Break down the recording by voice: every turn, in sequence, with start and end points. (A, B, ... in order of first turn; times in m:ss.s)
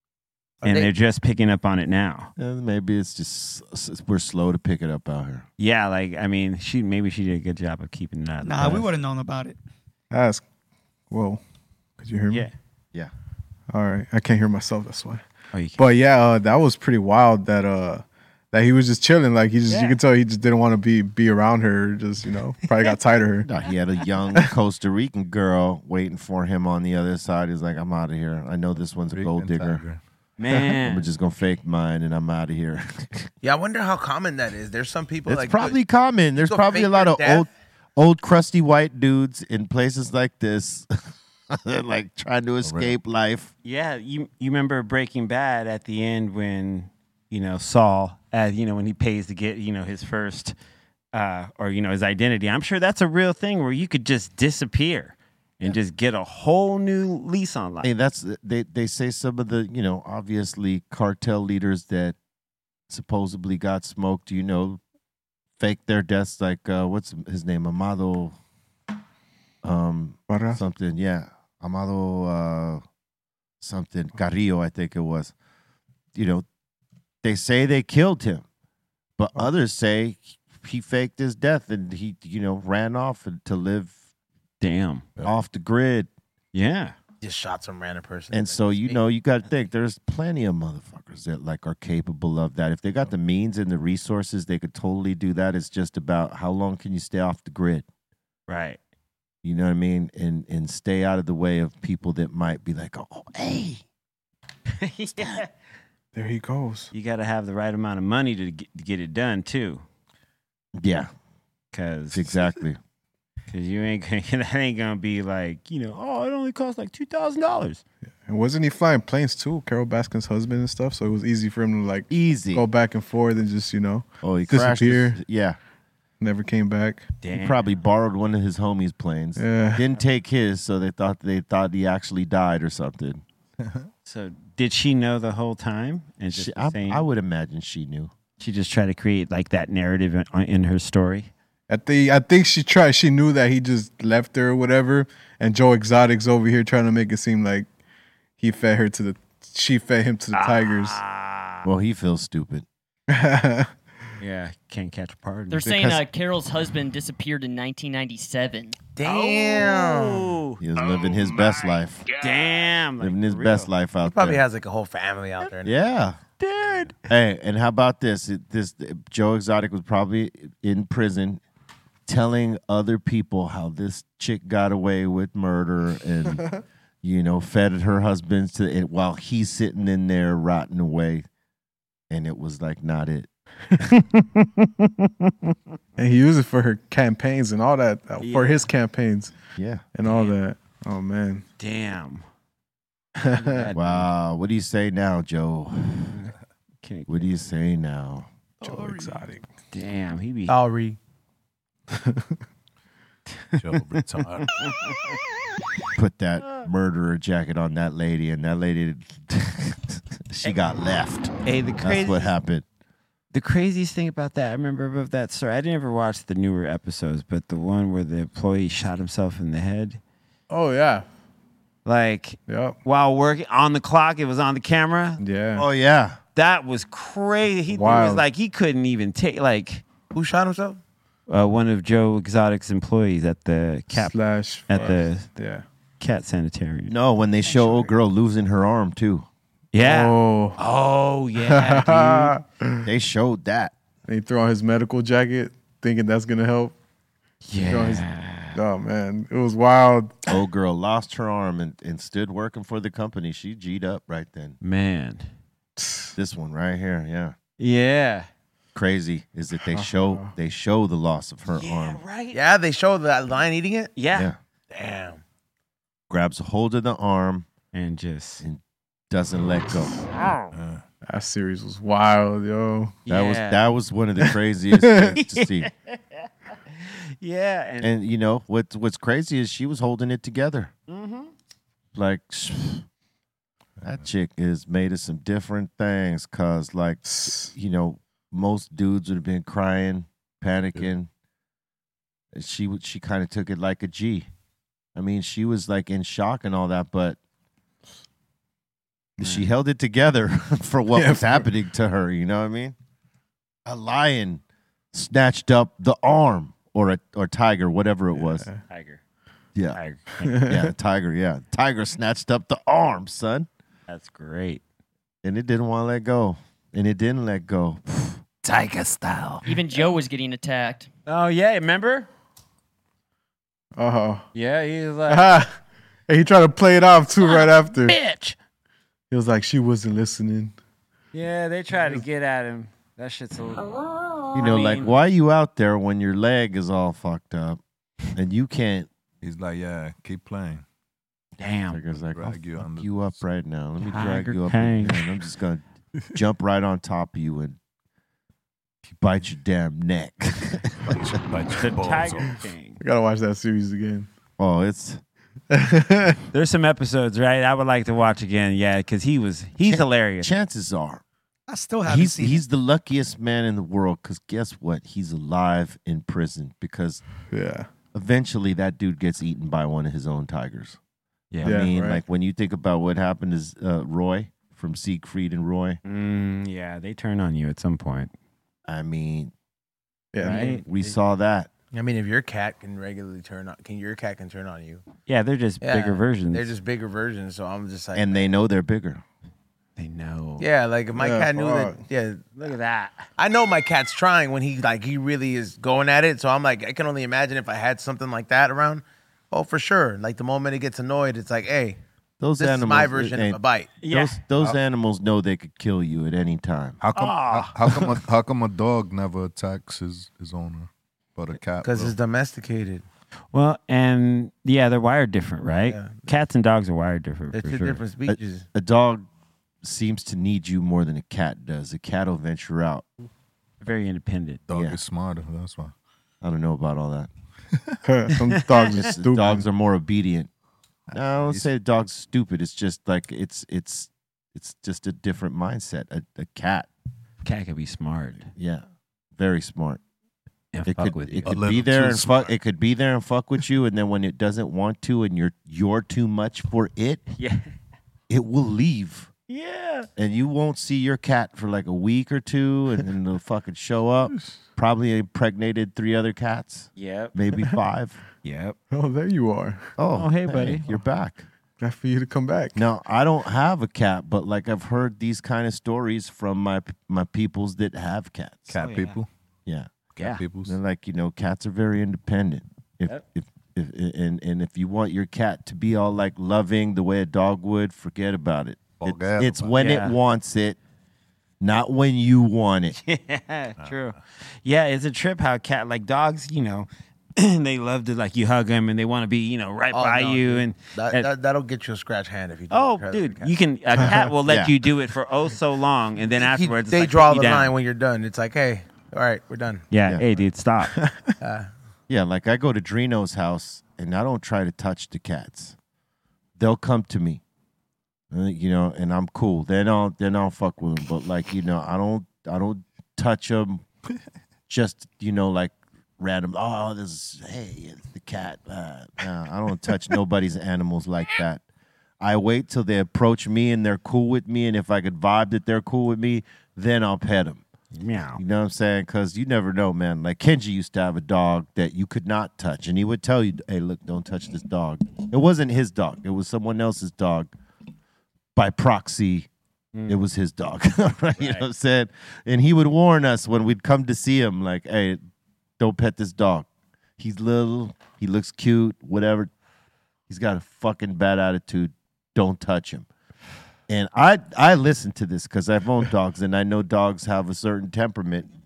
0:00.6-0:00.9 A
0:00.6-0:02.3 B
0:02.4-0:05.4 C
0:05.6-0:08.9 B
0:08.4-0:09.6 D
0:10.1-0:10.4 E
0:11.1-0:11.4 E
0:12.0-0:12.5 E
0:13.7-0:15.2 E
0:15.5-0:15.8 B
0:15.8-0:23.5 E
0:19.7-0:20.0 B
0:23.4-0:29.8 C
0:29.1-0:30.0 F
0:30.4-0:31.1 B
0:30.5-0:33.3 C
0:33.4-0:35.8 A
0:35.2-0:40.9 C
0:36.4-0:37.5 A
0:41.5-0:43.5 C
0:42.6-0:42.9 F
0:43.6-0:50.5 B
0:51.1-0:57.9 B
0:57.8-1:02.2 C
1:02.9-1:04.8 C
1:05.6-1:08.4 C
1:09.6-1:12.8 C
1:10.3-1:10.6 E
1:13.6-1:15.3 C
1:16.1-1:16.4 C
1:17.2-1:18.4 C
1:19.2-1:24.0 C
1:24.6-1:25.1 B
1:25.2-1:26.1 C
1:26.5-1:26.9 B
1:27.2-1:29.0 A
1:28.3-1:37.8 C
1:38.5-1:38.8 B
1:39.4-1:43.8 C
1:44.8-1:45.5 B
1:46.1-1:46.9 E
1:46.9-1:49.8 B
1:50.8-1:51.1 C
1:51.7-1:52.4 B
1:52.1-1:52.8 C
1:53.5-1:57.8 B
1:58.3-2:05.2 E
2:02.1-2:02.6 C
2:04.2-2:05.6 C
2:06.2-2:07.1 E
2:07.2-2:07.8 B
2:07.3-2:13.2 C
2:09.4-2:09.8 E
2:13.6-2:13.9 F
2:14.0-2:17.0 B
2:16.3-2:18.1 C
2:18.4-2:21.3 B
2:21.7-2:27.7 E
2:28.4-2:31.0 E
2:30.3-2:31.7 B
2:31.6-2:32.6 C
2:33.1-2:33.7 E
2:34.2-2:35.6 B
2:35.5-2:38.8 G
2:35.6-2:36.0 C
2:39.0-2:40.3 A
2:39.0-2:40.6 B
2:40.6-2:42.0 C
2:42.1-2:43.7 B
2:43.0-2:44.4 C
2:44.0-2:45.7 A
2:45.6-2:46.2 C
2:46.4-2:47.0 B
2:47.1-2:51.4 C
2:52.1-2:56.4 C
2:57.0-3:01.3 C
3:02.1-3:03.3 C
3:04.0-3:05.5 B
3:06.0-3:09.3 E
3:08.2-3:08.7 B
3:09.6-3:09.8 C
3:09.9-3:11.4 E
3:10.0-3:10.4 B
3:11.6-3:12.2 B
3:13.2-3:13.7 E
3:13.3-3:14.1 B
3:13.7-3:16.2 C
3:16.1-3:17.3 B
3:17.1-3:18.3 C
3:18.6-3:19.4 E
3:19.7-3:20.6 B
3:20.5-3:21.0 A
3:21.9-3:22.3 E
3:23.6-3:24.5 F
3:24.4-3:25.2 B
3:26.0-3:32.6 C
3:31.4-3:32.3 B
3:33.3-3:40.0 B
3:40.5-3:41.0 E
3:41.8-3:45.2 B
3:42.5-3:42.8 E
3:45.2-3:45.6 E
3:45.6-3:46.2 C
3:46.3-3:49.8 B
3:47.7-3:48.2 E
3:50.1-3:50.8 A
3:51.3-3:54.1 B
3:53.9-3:55.6 E
3:54.7-3:55.3 B
3:56.0-3:56.9 B
3:56.9-3:59.2 C
3:57.5-3:57.9 D
3:59.7-4:02.4 B
3:59.8-4:00.6 E
4:01.4-4:02.8 E
4:02.8-4:03.7 C
4:04.1-4:06.7 E
4:07.5-4:08.6 B
4:07.6-4:10.2 E
4:10.3-4:14.6 C
4:14.6-4:15.3 B
4:15.8-4:16.1 E
4:16.2-4:17.3 C
4:17.6-4:18.3 B
4:18.7-4:22.0 C
4:19.7-4:20.3 E
4:21.5-4:22.4 B
4:22.3-4:23.9 A
4:23.9-4:24.3 B
4:24.7-4:25.2 A
4:26.1-4:27.5 C
4:27.7-4:28.4 B
4:28.4-4:29.9 C
4:30.1-4:30.5 B
4:30.5-4:30.8 F
4:31.1-4:32.9 E
4:33.0-4:33.6 B
4:33.1-4:35.7 C
4:34.3-4:35.2 E
4:35.2-4:37.9 B
4:37.8-4:40.7 C
4:40.9-4:41.3 B
4:41.9-4:42.8 C
4:43.8-4:44.0 F
4:43.8-4:51.1 C
4:47.0-4:47.5 E
4:52.3-4:54.3 C
4:54.9-4:57.2 C
4:59.2-5:02.7 C
4:59.2-4:59.5 B
5:00.9-5:01.4 E
5:03.6-5:04.4 C
5:04.9-5:08.4 C
5:08.2-5:08.6 E
5:08.7-5:09.0 B
5:09.5-5:09.8 C
5:09.7-5:10.4 B
5:10.2-5:10.6 E
5:10.4-5:13.5 C
5:13.9-5:14.6 B
5:15.2-5:18.2 C
5:18.4-5:19.6 B
5:19.4-5:20.9 G
5:21.0-5:22.1 B
5:23.8-5:24.2 E
5:24.3-5:25.4 B
5:25.1-5:25.5 E
5:26.1-5:28.0 E
5:27.2-5:28.4 B
5:29.1-5:30.5 E
5:31.1-5:33.7 B
5:31.8-5:32.0 E
5:34.3-5:37.6 C
5:34.3-5:35.0 B
5:38.1-5:38.9 C
5:39.2-5:40.6 F
5:41.4-5:41.8 B
5:41.7-5:45.6 C
5:42.1-5:43.1 F
5:43.8-5:45.0 B
5:46.1-5:47.6 C
5:49.0-5:51.0 C
5:50.8-5:52.4 F
5:51.5-5:52.8 B
5:52.8-5:54.1 E
5:54.4-5:55.0 C
5:55.5-5:56.2 E
5:56.3-6:00.3 B
5:59.6-6:01.0 C
6:01.5-6:02.4 D
6:01.8-6:07.0 C
6:07.3-6:07.7 E
6:07.9-6:10.8 C
6:11.3-6:11.6 B
6:11.4-6:15.8 C
6:11.4-6:12.0 E
6:15.8-6:18.1 B
6:18.6-6:19.3 C
6:20.1-6:20.5 E
6:20.2-6:20.6 B
6:20.3-6:21.5 C
6:20.3-6:20.6 A
6:21.7-6:24.8 A
6:25.1-6:26.5 B
6:25.6-6:28.3 A
6:27.9-6:29.0 C
6:29.8-6:30.5 B
6:30.4-6:32.2 A
6:30.9-6:31.8 E
6:32.4-6:33.1 B
6:33.2-6:41.8 A
6:42.2-6:46.8 C
6:42.4-6:43.7 A
6:43.8-6:44.2 B
6:46.8-6:52.0 F
6:46.9-6:47.9 B
6:51.6-6:52.8 A
6:53.3-6:57.8 B
6:55.7-6:56.0 A
6:57.3-6:58.4 A
6:58.1-6:59.0 C
6:59.6-7:02.8 C
7:03.6-7:04.4 B
7:04.5-7:05.7 F
7:04.5-7:04.8 C
7:06.2-7:07.1 C
7:07.8-7:09.4 E
7:08.5-7:08.8 B
7:08.7-7:10.3 C
7:10.9-7:11.5 F
7:10.9-7:16.7 C
7:17.2-7:18.3 B
7:18.3-7:18.6 C
7:19.2-7:19.8 C
7:20.5-7:21.4 B
7:20.7-7:27.0 C
7:21.2-7:22.3 F
7:27.2-7:27.5 B
7:28.1-7:29.1 C
7:29.3-7:29.9 B
7:30.0-7:38.0 C
7:36.8-7:37.1 B
7:38.2-7:38.6 B
7:38.7-7:39.7 E
7:39.8-7:41.3 C
7:39.9-7:40.7 B
7:41.6-7:42.6 E
7:42.5-7:48.5 C
7:48.5-7:49.1 F
7:48.6-7:49.0 B
7:49.9-7:50.6 F
7:50.4-8:00.6 C
7:58.8-7:59.6 F
7:59.6-8:00.0 B
8:01.4-8:02.8 C
8:02.8-8:11.1 B
8:03.6-8:04.0 F
8:09.7-8:13.3 A
8:12.5-8:17.5 B
8:13.8-8:14.0 E
8:13.8-8:14.5 C
8:16.2-8:19.6 A
8:19.7-8:20.8 B
8:20.8-8:21.1 E
8:21.2-8:21.5 A
8:21.9-8:25.6 C
8:26.4-8:27.2 C
8:28.1-8:33.6 C
8:34.5-8:41.4 C
8:42.0-8:47.4 C
8:47.7-8:48.2 B
8:48.1-8:57.3 C
8:58.4-8:59.3 C
8:59.7-9:00.0 B
8:59.9-9:05.0 C
9:01.2-9:01.4 B
9:05.6-9:06.5 C
9:07.0-9:09.3 C
9:10.1-9:12.9 C
9:13.7-9:18.3 C